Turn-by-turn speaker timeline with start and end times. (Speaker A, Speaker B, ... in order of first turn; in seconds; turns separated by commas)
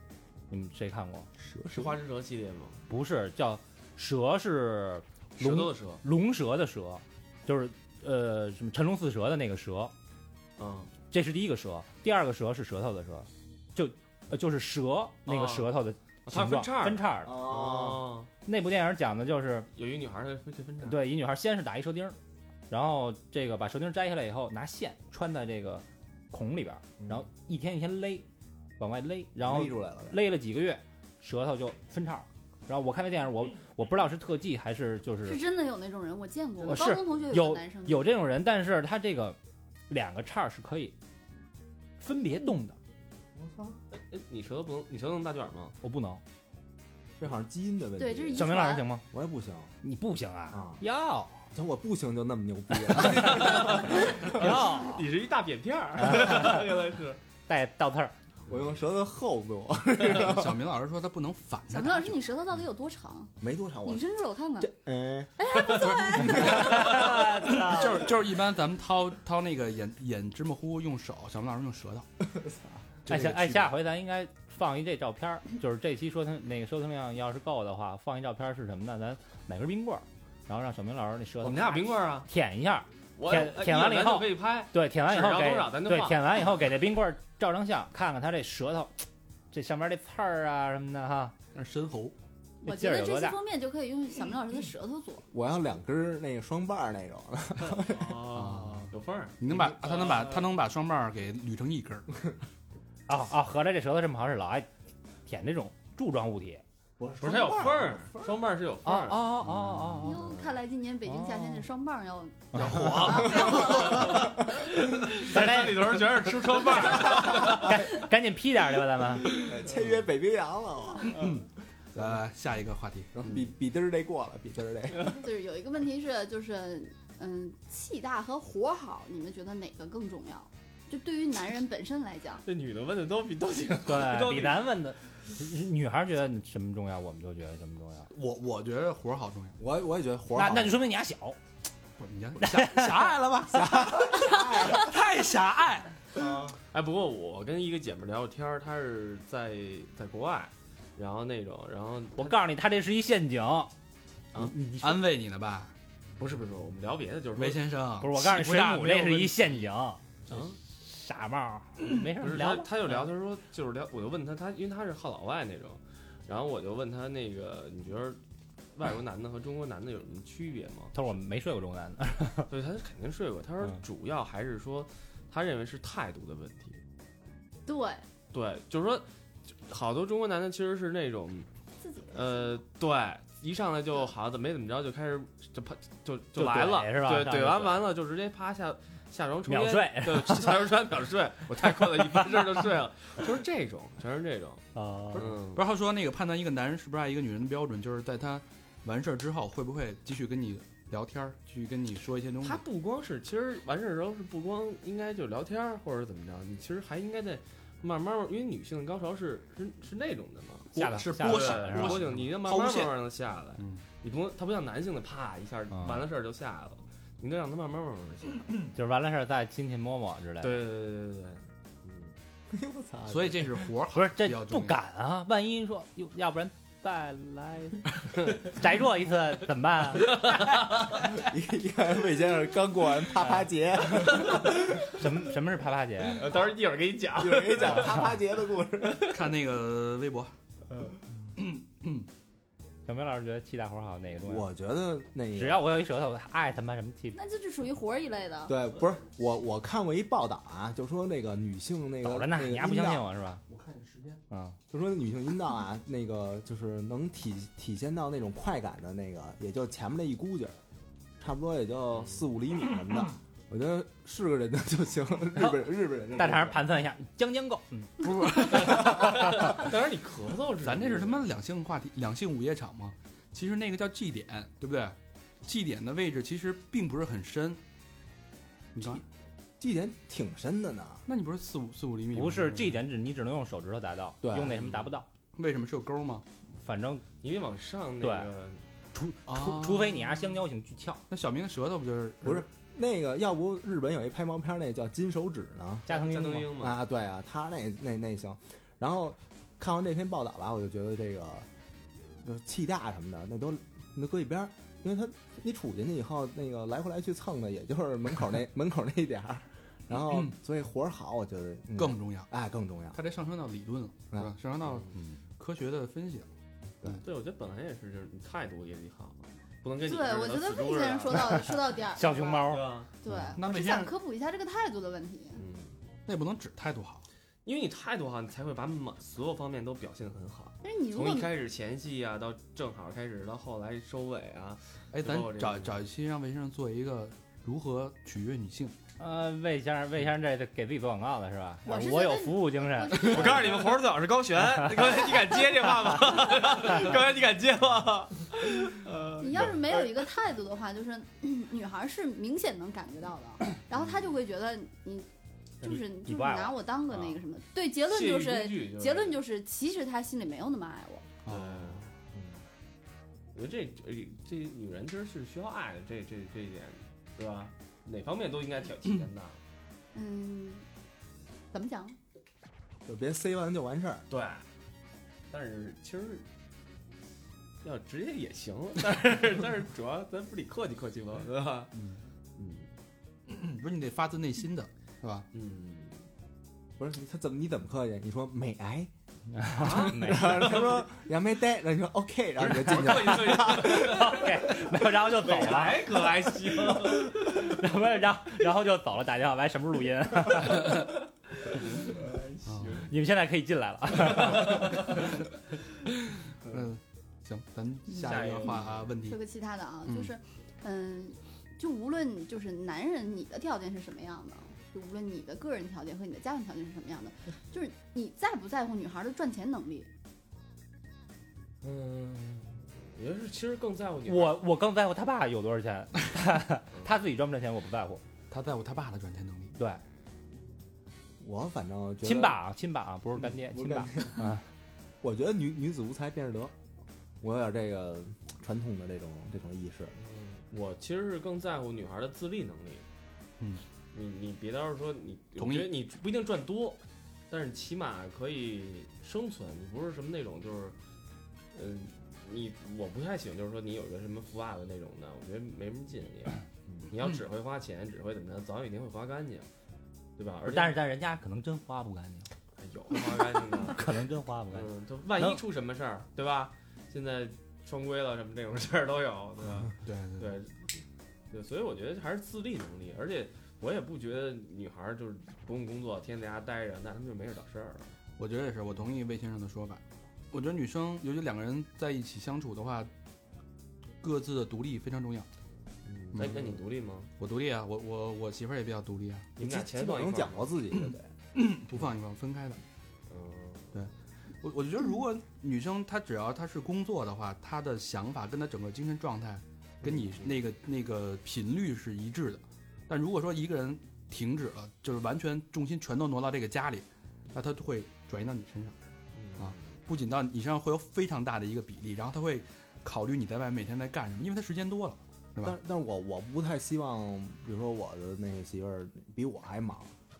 Speaker A: 0.5-1.3, Speaker B: 1.4-1.9, Speaker C: 1.7-2.8, Speaker A: 2.9-9.9, Speaker C: 5.4-6.0, Speaker C: 10.6-10.9, Speaker A: 11.1-17.3, Speaker C: 15.2-15.7, Speaker C: 16.2-18.3, Speaker B: 17.2-18.1, Speaker A: 18.4-19.7, Speaker C: 19.7-21.0, Speaker A: 20.8-22.2, Speaker A: 22.7-28.2, Speaker B: 27.0-27.2, Speaker A: 28.8-35.4, Speaker B: 29.4-30.2, Speaker D: 35.2-38.1, Speaker A: 36.6-39.4, Speaker A: 39.9-40.9, Speaker A: 42.0-42.8, Speaker B: 43.4-43.8, Speaker C: 44.1-45.8, Speaker A: 45.8-46.2, Speaker B: 47.2-48.5, Speaker D: 48.0-48.8, Speaker A: 48.4-49.0, Speaker B: 49.1-49.7, Speaker A: 49.8-51.5, Speaker B: 50.5-50.8, Speaker B: 51.5-54.6, Speaker A: 53.0-55.0, Speaker C: 53.4-57.2, Speaker A: 56.0-56.6, Speaker A: 57.5-58.1, Speaker B: 58.5-60.6, Speaker E: 60.1-62.2, Speaker D: 61.7-63.3, Speaker B: 63.4-64.0, Speaker D: 63.8-64.7, Speaker B: 64.6-66.7, Speaker D: 65.4-67.0, Speaker E: 66.1-72.0, Speaker A: 66.3-68.1, Speaker B: 72.4-72.8, Speaker E: 73.0-73.7, Speaker A: 73.1-91.3, Speaker C: 81.4-82.3, Speaker C: 83.2-86.4, Speaker E: 91.5-92.1, Speaker D: 92.6-95.2, Speaker A: 92.6-93.4, Speaker B: 95.3-98.2, Speaker C: 97.6-100.5, Speaker E: 98.3-102.1, Speaker A: 103.1-104.7, Speaker A: 105.2-106.6, Speaker B: 107.0-108.3, Speaker C: 107.2-109.4, Speaker A: 108.8-110.3, Speaker D: 110.0-114.5, Speaker A: 111.0-111.6, Speaker A: 112.5-113.5, Speaker C: 112.6-117.6, Speaker B: 113.0-114.3, Speaker A: 115.2-115.9, Speaker A: 117.0-119.4, Speaker B: 119.3-121.3, Speaker E: 121.0-123.1, Speaker B: 123.1-125.2, Speaker D: 125.0-132.4, Speaker C: 132.4-134.7, Speaker A: 133.8-138.1, Speaker E: 138.1-139.6, Speaker B: 139.6-140.8, Speaker A: 140.3-141.4, Speaker E: 142.0-146.0, Speaker A: 142.4-143.1, Speaker B: 143.5-144.9, Speaker D: 144.2-144.8, Speaker B: 146.2-146.5, Speaker C: 146.7-152.4, Speaker A: 152.2-153.7, Speaker A: 154.3-155.0, Speaker E: 154.8-155.7, Speaker C: 156.2-157.6, Speaker E: 157.3-159.5, Speaker A: 158.0-160.0, Speaker C: 160.3-160.6, Speaker A: 160.7-163.0, Speaker C: 162.1-168.2, Speaker C: 168.7-170.9, Speaker A: 170.9-172.5, Speaker C: 172.5-176.8, Speaker D: 177.7-178.0, Speaker C: 178.3-181.5, Speaker D: 181.8-182.5, Speaker C: 182.1-194.6, Speaker A: 186.3-187.9, Speaker A: 189.5-190.6, Speaker A: 194.7-195.3, Speaker E: 195.1-202.6, Speaker C: 195.2-195.6, Speaker C: 202.4-218.5, Speaker E: 210.7-213.0, Speaker A: 210.7-212.1, Speaker E: 213.6-213.8, Speaker A: 215.7-216.0, Speaker A: 218.7-220.6, Speaker C: 220.4-222.1, Speaker B: 222.5-223.5, Speaker E: 223.1-224.8, Speaker A: 223.9-230.2, Speaker C: 230.1-230.9, Speaker B: 231.1-234.8, Speaker A: 234.8-236.3, Speaker C: 236.1-238.2, Speaker B: 237.2-239.1, Speaker E: 239.1-240.3, Speaker E: 241.4-242.1, Speaker A: 242.8-244.5, Speaker B: 244.2-245.6, Speaker A: 245.3-247.2, Speaker D: 247.1-248.5, Speaker B: 248.5-253.1, Speaker A: 252.0-253.4, Speaker E: 253.5-254.2, Speaker A: 254.3-254.6, Speaker B: 254.7-260.6, Speaker B: 261.2-266.6, Speaker A: 265.4-269.5, Speaker E: 268.0-269.1, Speaker C: 268.5-271.2, Speaker E: 270.6-277.6, Speaker E: 278.7-279.0, Speaker B: 279.6-281.0, Speaker E: 281.1-282.8, Speaker A: 282.1-285.1, Speaker B: 284.2-284.6, Speaker E: 285.3-286.2, Speaker A: 286.6-287.1, Speaker C: 287.2-288.6, Speaker A: 288.0-288.3, Speaker A: 288.9-291.0, Speaker E: 289.3-290.2, Speaker E: 291.1-292.4, Speaker B: 292.2-295.9, Speaker A: 295.9-296.5, Speaker C: 295.9-296.8, Speaker B: 296.6-301.5, Speaker B: 302.2-313.0, Speaker E: 310.1-310.3, Speaker E: 311.8-312.3, Speaker E: 312.9-316.3, Speaker C: 317.0-321.5, Speaker D: 319.8-325.4, Speaker A: 321.9-322.7, Speaker C: 322.4-322.9, Speaker E: 323.1-323.9, Speaker C: 325.4-325.7, Speaker E: 326.1-327.0, Speaker C: 327.4-335.8, Speaker D: 330.6-331.3, Speaker E: 334.9-338.7, Speaker A: 339.0-343.4, Speaker D: 341.6-343.6, Speaker C: 342.9-350.0, Speaker D: 345.1-345.3, Speaker D: 349.2-355.1, Speaker C: 353.7-354.1, Speaker D: 355.6-361.1, Speaker A: 355.6-356.6, Speaker C: 357.9-359.2, Speaker E: 361.2-361.8, Speaker C: 361.2-361.9, Speaker C: 363.3-369.4, Speaker D: 369.9-370.6, Speaker D: 371.5-372.0, Speaker B: 372.8-374.0, Speaker C: 374.1-374.4, Speaker C: 375.3-376.2, Speaker C: 377.6-381.7, Speaker C: 382.4-382.7, Speaker E: 383.3-385.3, Speaker C: 385.3-386.0, Speaker B: 386.8-388.9, Speaker A: 389.3-390.6, Speaker C: 389.6-390.9, Speaker B: 389.6-394.2, Speaker C: 392.4-394.6, Speaker A: 393.2-396.0, Speaker C: 395.1-397.5, Speaker A: 396.7-400.8, Speaker C: 401.9-402.9, Speaker E: 402.4-402.9, Speaker A: 402.8-405.0, Speaker E: 406.4-409.2, Speaker C: 407.9-408.9, Speaker D: 409.0-419.9, Speaker C: 421.6-424.4, Speaker A: 424.1-428.0, Speaker E: 428.3-429.5, Speaker A: 429.6-429.8, Speaker B: 431.2-432.4, Speaker A: 432.0-434.4, Speaker B: 433.5-434.2, Speaker B: 435.0-436.5, Speaker B: 437.2-439.9, Speaker C: 440.0-442.8, Speaker C: 443.9-450.8, Speaker E: 445.4-445.7, Speaker C: 451.5-459.5, Speaker C: 460.2-460.8, Speaker A: 460.4-462.3, Speaker C: 462.6-463.9, Speaker A: 463.6-465.4, Speaker C: 464.5-470.6, Speaker E: 469.8-470.4, Speaker C: 471.3-477.9, Speaker E: 478.2-482.9, Speaker E: 484.0-485.3, Speaker C: 485.9-487.1, Speaker E: 486.1-486.6, Speaker E: 487.2-489.3, Speaker C: 489.4-490.5, Speaker B: 489.4-491.1, Speaker E: 490.8-492.6, Speaker C: 493.1-493.7, Speaker E: 494.4-508.8, Speaker C: 499.8-500.3, Speaker C: 509.1-509.6, Speaker E: 509.4-515.6, Speaker B: 515.4-519.9